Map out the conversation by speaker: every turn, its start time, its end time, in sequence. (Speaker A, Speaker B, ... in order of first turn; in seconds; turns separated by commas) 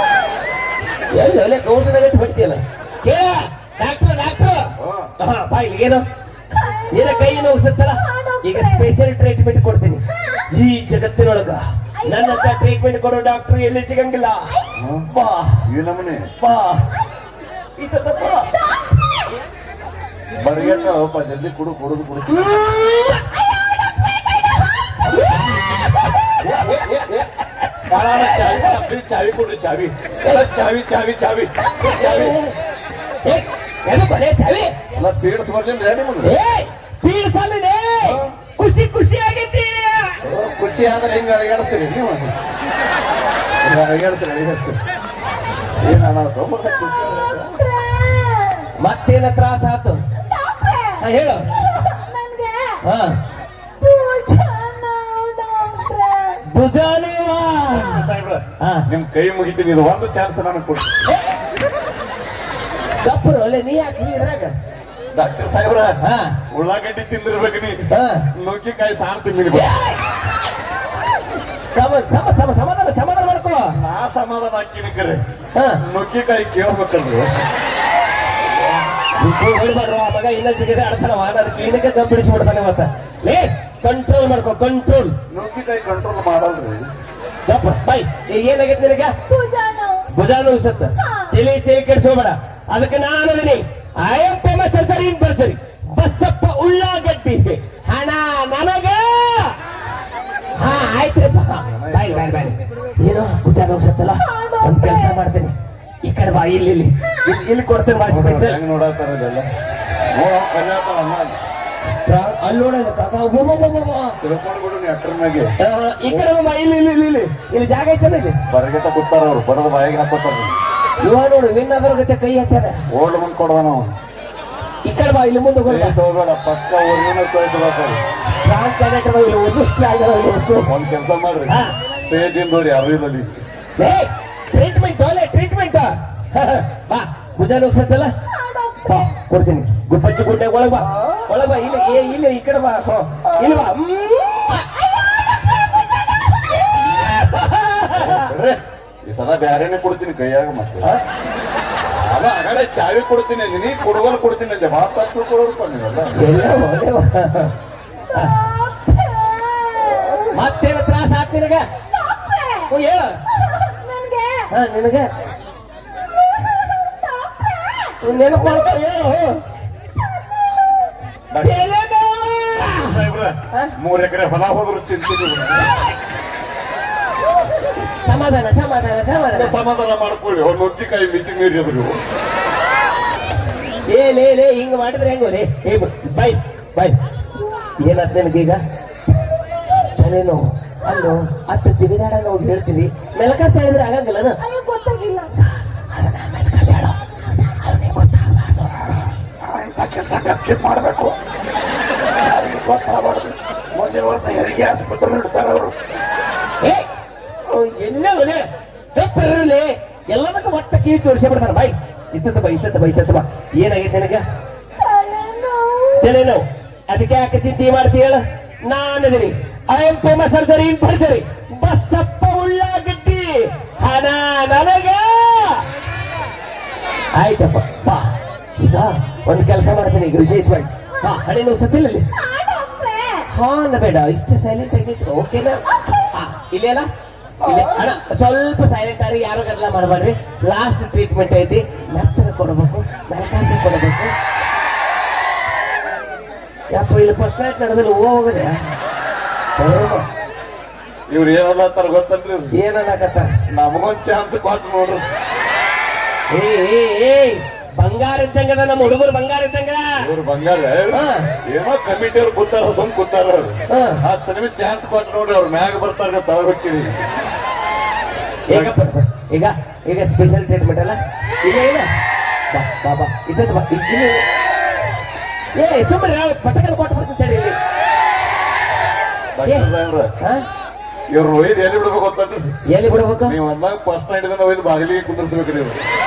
Speaker A: 1.1-6.0, Speaker B: 4.8-5.1, Speaker C: 6.5-8.9, Speaker A: 6.9-14.5, Speaker C: 10.1-10.5, Speaker C: 12.0-12.6, Speaker B: 14.8-15.1, Speaker A: 15.1-15.6, Speaker B: 15.7-16.3, Speaker A: 16.4-16.9, Speaker A: 17.8-18.5, Speaker C: 18.5-19.2, Speaker B: 20.3-22.5, Speaker A: 22.3-23.2, Speaker A: 25.0-27.3, Speaker B: 26.4-27.1, Speaker B: 27.9-32.3, Speaker A: 28.2-28.8, Speaker A: 31.8-32.5, Speaker A: 33.2-34.7, Speaker B: 34.9-36.3, Speaker A: 36.2-40.2, Speaker B: 38.0-38.3, Speaker B: 40.2-42.3, Speaker B: 43.6-44.8, Speaker B: 45.8-47.6, Speaker C: 47.5-48.7, Speaker A: 48.8-50.0, Speaker C: 50.2-51.0, Speaker A: 51.0-51.5, Speaker C: 51.6-52.8, Speaker A: 52.8-53.2, Speaker C: 53.8-56.4, Speaker A: 56.5-58.1, Speaker B: 57.8-60.9, Speaker A: 58.6-58.9, Speaker A: 63.0-64.5, Speaker B: 65.1-65.9, Speaker A: 66.0-66.4, Speaker B: 66.5-69.7, Speaker A: 67.9-68.3, Speaker A: 69.5-70.0, Speaker A: 71.7-73.8, Speaker B: 73.7-75.2, Speaker A: 75.5-75.8, Speaker B: 75.8-77.3, Speaker A: 79.2-85.2, Speaker B: 85.3-86.9, Speaker A: 87.5-89.1, Speaker C: 89.3-90.1, Speaker A: 90.1-99.5, Speaker C: 91.0-91.3, Speaker A: 100.6-108.6, Speaker B: 101.7-102.4, Speaker C: 104.2-105.2, Speaker B: 108.1-109.5, Speaker B: 110.1-111.4, Speaker A: 112.0-114.2, Speaker B: 114.2-115.5, Speaker A: 115.6-118.4, Speaker B: 118.5-120.6, Speaker A: 121.0-122.8, Speaker B: 122.9-123.9, Speaker A: 124.8-126.0, Speaker B: 125.7-128.0, Speaker A: 128.4-130.7, Speaker B: 130.6-133.4, Speaker A: 131.5-131.7, Speaker A: 133.8-138.1, Speaker C: 138.3-139.2, Speaker A: 138.9-144.7, Speaker B: 140.8-141.4, Speaker B: 143.2-143.7, Speaker C: 144.7-146.6, Speaker A: 146.7-148.3, Speaker B: 147.9-150.9, Speaker B: 151.8-156.1, Speaker A: 156.1-157.5, Speaker C: 158.1-160.3, Speaker B: 160.0-160.3, Speaker A: 160.3-161.6, Speaker C: 161.9-162.7, Speaker A: 162.7-163.2, Speaker C: 163.3-164.5, Speaker A: 164.5-165.1, Speaker C: 166.2-168.8, Speaker A: 168.0-169.4, Speaker C: 169.9-170.9, Speaker B: 171.3-171.7, Speaker A: 171.4-173.7, Speaker B: 172.6-175.7, Speaker A: 178.0-179.6, Speaker B: 179.3-182.0, Speaker A: 183.9-187.0, Speaker C: 187.3-187.7, Speaker A: 187.8-188.6, Speaker A: 189.9-194.4, Speaker C: 194.4-195.3, Speaker A: 195.4-199.0, Speaker B: 199.4-201.2, Speaker B: 202.1-205.7, Speaker A: 206.6-206.9, Speaker A: 207.5-214.2, Speaker C: 214.8-216.1, Speaker A: 216.0-225.6, Speaker A: 227.1-232.0, Speaker C: 232.1-233.3, Speaker A: 233.3-236.9, Speaker B: 237.4-237.9, Speaker A: 237.4-244.1, Speaker A: 246.7-248.6, Speaker A: 249.6-250.1, Speaker B: 251.1-252.5, Speaker A: 252.5-253.3, Speaker B: 253.5-255.1, Speaker A: 256.3-260.0, Speaker B: 260.0-267.0, Speaker A: 260.9-261.3, Speaker A: 263.7-264.0, Speaker A: 268.5-271.9, Speaker A: 272.5-274.2, Speaker A: 275.5-277.6, Speaker B: 279.3-280.1, Speaker B: 281.1-282.5, Speaker A: 282.7-283.4, Speaker B: 283.2-285.8